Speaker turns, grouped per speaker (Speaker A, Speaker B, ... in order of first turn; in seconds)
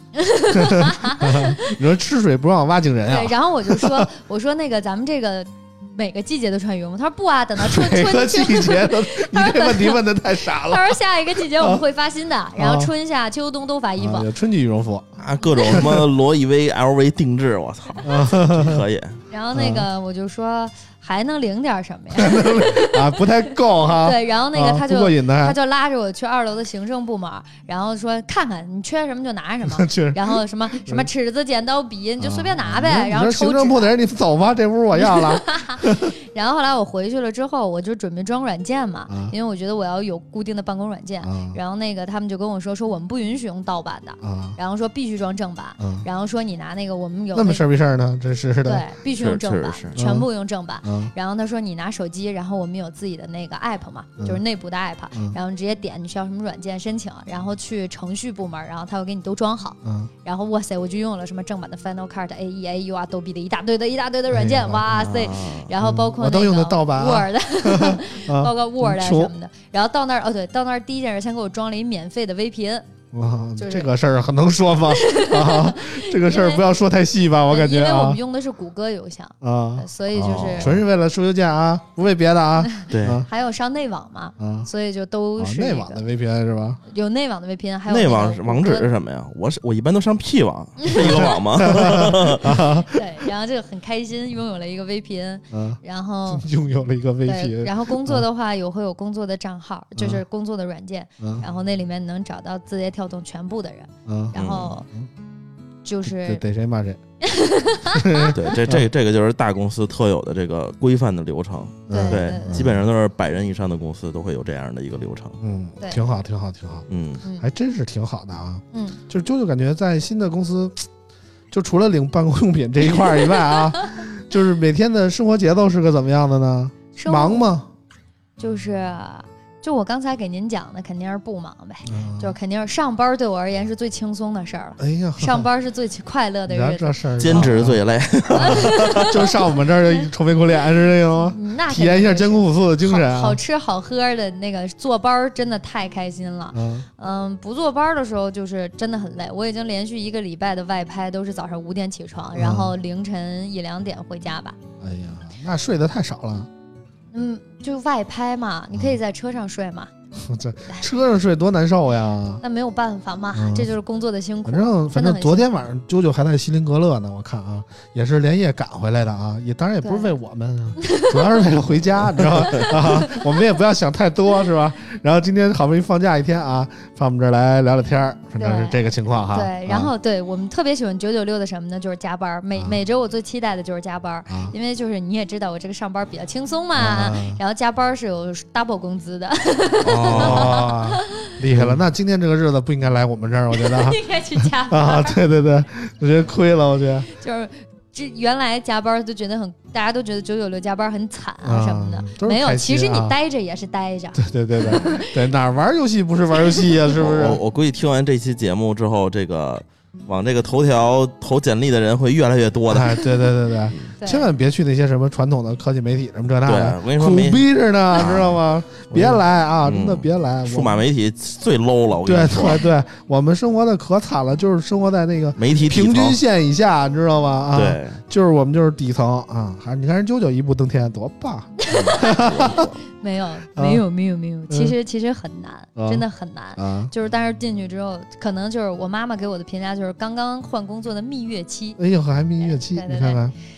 Speaker A: 0.1-1.8, 3.1-10.0, 10.6-14.3, 19.3-23.3, 24.0-33.9, 35.0-47.6, 48.6-72.9, 73.6-73.9, 74.9-76.6, 77.5-80.8, 82.7-86.0, 86.9-88.9, 90.8-91.3, 92.9-96.5, 97.2-104.9, 105.8-106.4, 107.2-108.4, 111.9-112.7, 118.7-119.0, 127.0-127.5, 128.4-137.6, 138.3-140.1, 141.2-154.6, 157.1-159.9, 162.4-165.5, 169.8-170.1, 170.8-171.5, 172.5-173.3, 178.4-178.8, 179.3-191.3, 193.5-195.2, 197.1-205.2, 206.4-206.7, 214.0-214.3, 231.6-241.8, 242.4-243.2
Speaker B: 0.5-4.1, 7.6-11.8, 12.6-12.9, 14.0-16.1, 18.0-18.8, 19.5-19.9, 22.1-25.6, 29.6-31.1, 32.2-36.1, 39.1-39.3, 41.2-41.6, 44.2-44.6, 45.8-46.1, 47.3-48.9, 50.0-50.3, 50.8-51.1, 59.8-60.1, 64.3-64.8, 65.8-69.3, 73.1-78.2, 79.4-83.3, 84.4-84.7, 85.4-86.8, 91.0-92.9, 95.5-98.2, 100.0-100.2, 101.2-101.5, 104.1-104.4, 106.0-107.0, 107.9-108.9, 111.9-112.8, 115.4-116.9, 117.4-120.9, 121.5-127.7, 131.9-132.4, 134.8-135.5, 136.5-143.4, 146.5-146.9, 152.3-152.8, 154.8-156.5, 160.2-162.4, 163.3-163.7, 164.4-179.9, 184.3-184.5, 186.8-187.4, 190.1-197.1, 201.4-203.2, 204.2-207.4, 212.7-220.8, 222.1-232.7, 233.6-233.8, 234.5-234.8, 235.8-236.1, 236.6-236.9, 241.8-243.3
Speaker C: 15.2-19.2, 49.1-50.0, 64.9-65.7, 80.1-80.8, 82.9-83.2, 87.9-92.6, 104.3-104.7, 108.3-115.4, 116.9-117.2, 137.2-139.2, 172.2-172.7, 189.8-190.7, 206.9-213.9, 216.5-217.4, 217.9-222.6, 225.4-226.2, 227.5-228.0, 231.7-232.8